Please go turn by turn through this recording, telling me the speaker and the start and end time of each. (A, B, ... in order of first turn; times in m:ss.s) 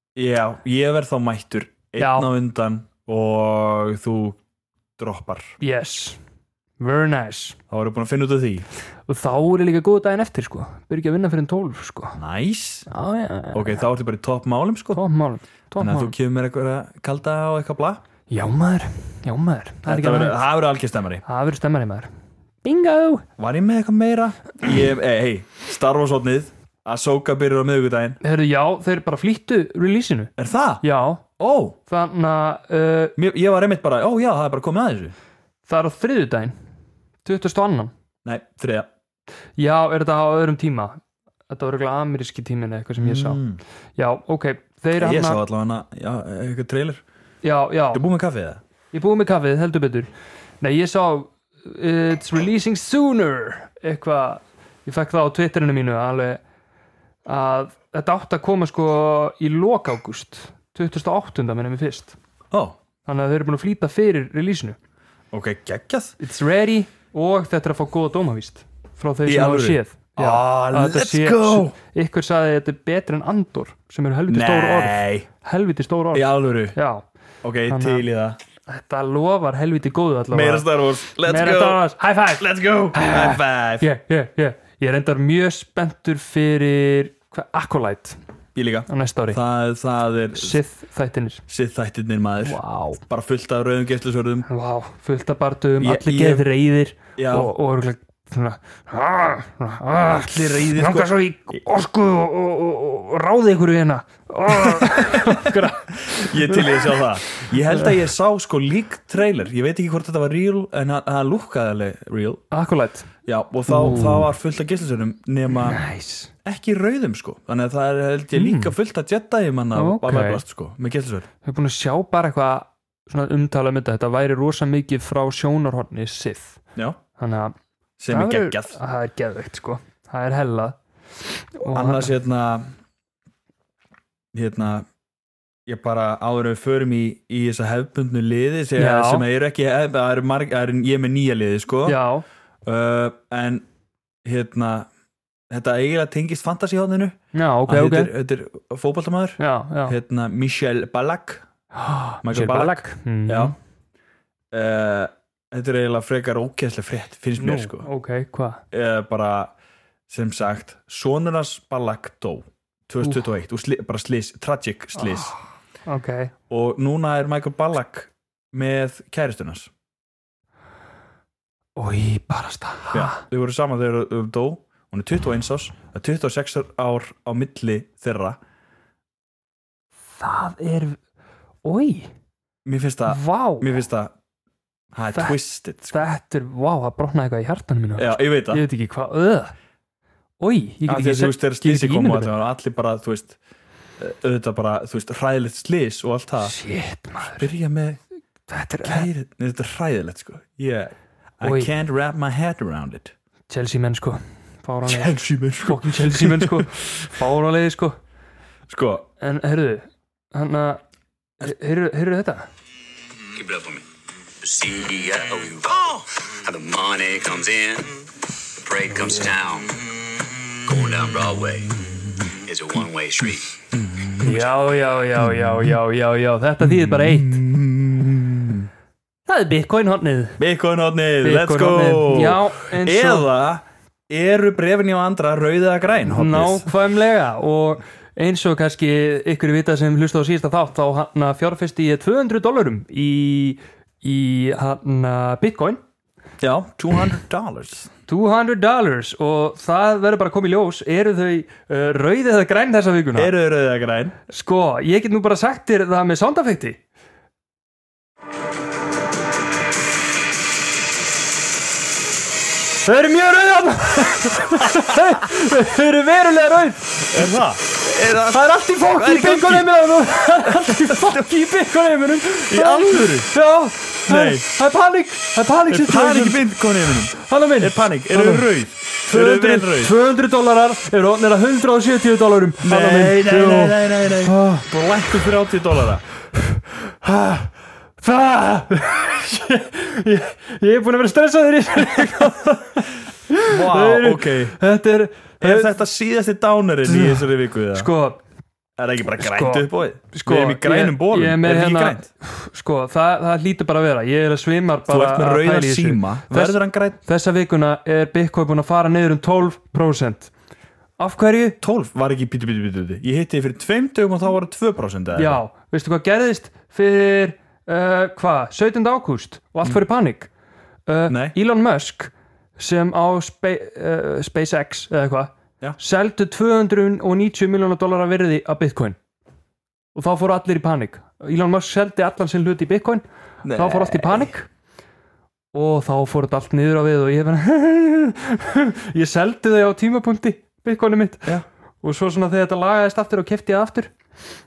0:00.2-0:04.4 A
0:02.0-0:02.3 B
0:05.0-0:05.5 A
0:05.6-0:06.2 B
0:06.8-0:07.6 B
0:07.7-0:08.7 A
0:09.1-0:12.2 B
0:12.2-0:12.9 A
0:12.9-0:13.8 B
0:13.5-0:15.0 A
0:14.9-0:16.1 B
0:15.8-0:18.0 A
0:18.3-0:20.4 B
0:19.9-0:21.2 A
0:21.3-0:22.1 B
0:22.6-0:23.3 B
0:23.4-0:28.2 A
0:28.2-0:31.2 B
0:30.4-0:30.8 A
0:31.4-0:31.8 A
0:31.9-0:33.2 B
0:33.2-0:35.2 A
0:35.7-0:36.6 B
0:37.2-0:37.9 B
0:38.2-0:38.9 A
0:39.6-0:43.4 B
0:43.0-0:43.6 A
0:44.0-0:45.4 B
0:45.0-0:47.0 A
0:47.4-0:48.0 B
0:47.9-0:48.6 A
0:48.9-0:50.1 B
0:50.6-0:56.4 B
0:57.3-1:02.2 B
1:02.5-1:02.8 A
1:03.1-1:04.8 B
1:05.3-1:06.2 A
1:06.2-1:17.0 B
1:09.2-1:11.8 A
1:14.3-1:15.3 A
1:16.1-1:16.8 A
1:17.4-1:18.4 A
1:17.7-1:18.1 B
1:18.7-1:28.2 B
1:20.3-1:21.8 A
1:22.4-1:23.9 A
1:28.6-1:30.6 A
1:28.9-1:29.4 B
1:30.3-1:31.4 B
1:31.5-1:34.5 A
1:32.4-1:33.0 B
1:34.5-1:48.0 B
1:35.8-1:36.5 A
1:37.2-1:37.5 A
1:40.1-1:41.6 A
1:44.5-1:52.4 A
1:52.5-1:53.1 B
1:53.3-1:55.8 A
1:53.7-1:54.3 B
1:55.5-1:56.3 B
1:56.4-2:01.3 A
1:58.3-1:58.7 B
1:59.8-2:00.4 B
2:01.4-2:06.6 B
2:07.2-2:07.6 B
2:08.0-2:08.8 A
2:08.1-2:10.8 B
2:11.6-2:12.1 B
2:11.7-2:12.7 A
2:14.3-2:14.9 A
2:15.7-2:22.0 A
2:18.8-2:19.3 B
2:21.9-2:22.2 B
2:22.6-2:23.7 A
2:24.2-2:24.9 A
2:25.5-2:31.5 A
2:27.3-2:28.1 B
2:29.4-2:30.0 B
2:31.7-2:33.6 B
2:32.2-2:33.6 A
2:34.5-2:37.9 A
2:37.4-2:38.6 B
2:38.7-2:39.5 A
2:40.1-2:45.4 A
2:45.0-2:46.3 B
2:46.5-2:49.7 A
2:51.8-2:53.2 B
2:52.9-2:58.4 A
3:00.2-3:01.0 B
3:01.6-3:02.1 B
3:02.6-3:04.1 A
3:03.1-3:03.7 B
3:04.9-3:06.0 A
3:05.9-3:09.5 B
3:08.0-3:08.6 A
3:10.4-3:12.3 B
3:10.9-3:13.4 A
3:14.0-3:16.6 A
3:16.4-3:17.5 B
3:17.2-3:18.0 A
3:18.5-3:19.1 B
3:18.8-3:23.1 A
3:21.4-3:21.7 B
3:23.5-3:28.0 B
3:24.9-3:27.1 A
3:28.7-3:29.1 A
3:29.2-3:30.8 B
3:31.4-3:32.5 B
3:33.4-3:33.8 C
3:34.4-3:38.0 C
3:38.6-3:39.7 C
3:40.7-3:41.7 C
3:42.5-3:43.5 C
3:43.7-3:44.5 A
3:44.2-3:47.4 B
3:46.6-3:48.7 A
3:49.3-3:50.4 B
3:50.4-3:56.7 A
3:51.2-3:53.3 B
3:56.1-4:05.8 B
4:06.4-4:07.9 A
4:08.1-4:13.3 B
4:13.2-4:14.2 A
4:14.3-4:16.8 B
4:22.8-4:27.3 B
4:27.1-4:29.8 A
4:28.3-4:38.5 B
4:30.4-4:31.2 A
4:32.5-4:33.3 A
4:34.1-4:34.5 A
4:35.7-4:39.9 A
4:39.0-4:44.7 B
4:42.6-4:46.0 A
4:46.5-4:47.5 B
4:48.0-4:55.7 B
4:53.5-4:54.6 A
4:55.4-4:57.9 A
4:56.9-4:58.2 B
4:58.8-5:02.1 A
4:59.2-5:10.3 B
5:04.9-5:07.0 A
5:11.0-5:11.6 B
5:11.6-5:15.4 A
5:15.2-5:20.3 B
5:20.9-5:29.0 B
5:21.1-5:21.4 A
5:30.0-5:34.5 B
5:33.4-5:34.3 A
5:35.5-5:44.3 B